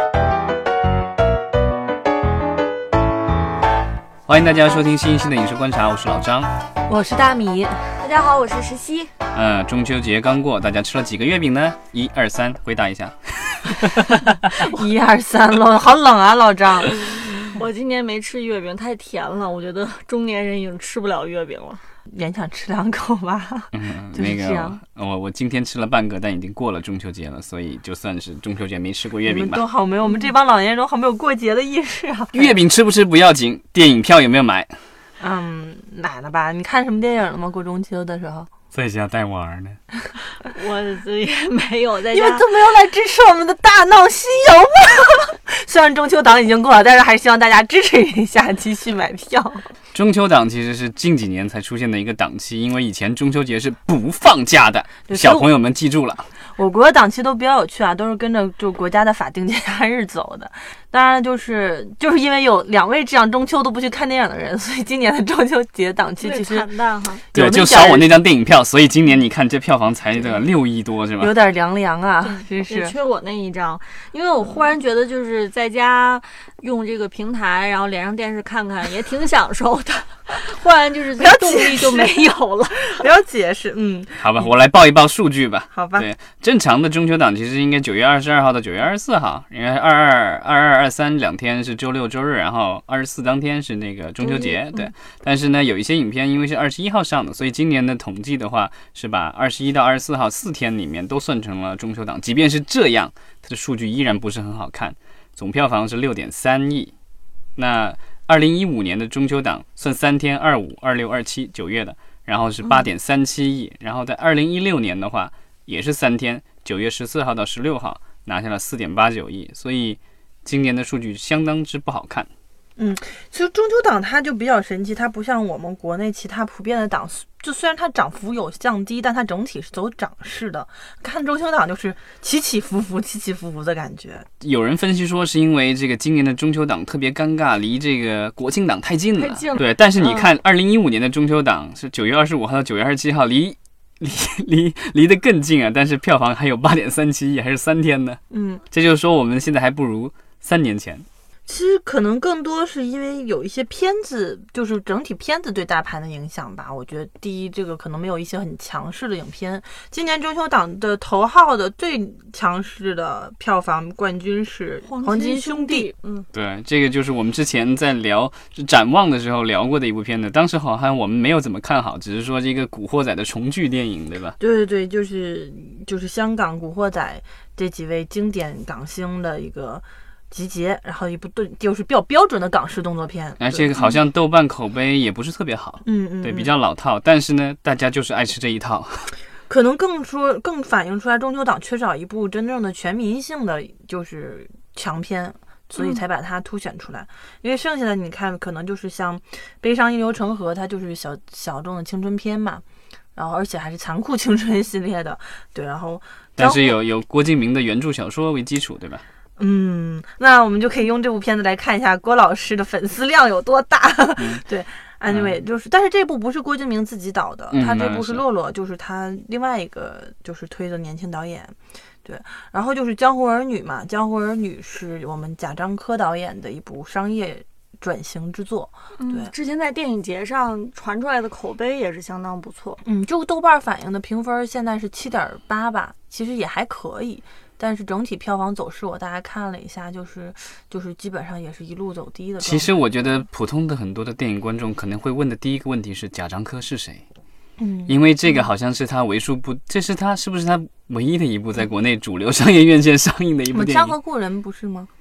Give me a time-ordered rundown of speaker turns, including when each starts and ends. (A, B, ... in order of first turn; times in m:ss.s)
0:04.3-0:06.5 A
0:06.9-0:08.0 B
0:08.0-0:09.1 C
0:09.3-0:14.5 A
0:14.5-0:17.3 B
0:17.0-0:21.8 C
0:22.1-0:24.8 B
0:23.7-0:29.6 A
0:29.3-0:32.6 B
0:32.3-0:34.7 A
0:35.2-0:38.5 B
0:38.7-0:39.8 A
0:40.4-0:42.4 C
0:42.1-0:49.7 B
0:49.9-0:56.3 A
0:55.1-0:55.5 B
0:56.6-1:06.7 B
1:06.2-1:07.2 C
1:07.2-1:08.1 B
1:07.3-1:11.3 A
1:11.2-1:13.0 B
1:12.2-1:23.1 C
1:21.2-1:24.5 B
1:24.2-1:46.9 A
1:25.7-1:26.1 B
1:34.2-1:34.9 C
1:47.6-2:02.3 A
2:02.8-2:14.3 B
2:14.4-2:28.2 A
2:19.2-2:20.2 C
2:28.3-2:28.6 B
2:28.7-2:31.1 A
2:31.5-2:45.9 B
2:44.8-2:46.3 C
2:46.3-2:54.4 A
2:54.4-3:03.8 B
3:03.4-3:09.1 A
3:05.8-3:06.5 B
3:09.5-3:22.6 B
3:15.8-3:16.0 C
3:23.2-3:26.8 B
3:26.4-3:29.0 A
3:29.4-3:49.3 B
3:35.1-3:35.4 A
3:37.5-3:38.2 A
3:49.0-3:52.8 C
3:52.8-4:02.8 B
4:02.4-4:07.0 A
4:07.6-4:08.0 B
4:07.9-4:14.0 A
4:13.5-4:14.9 B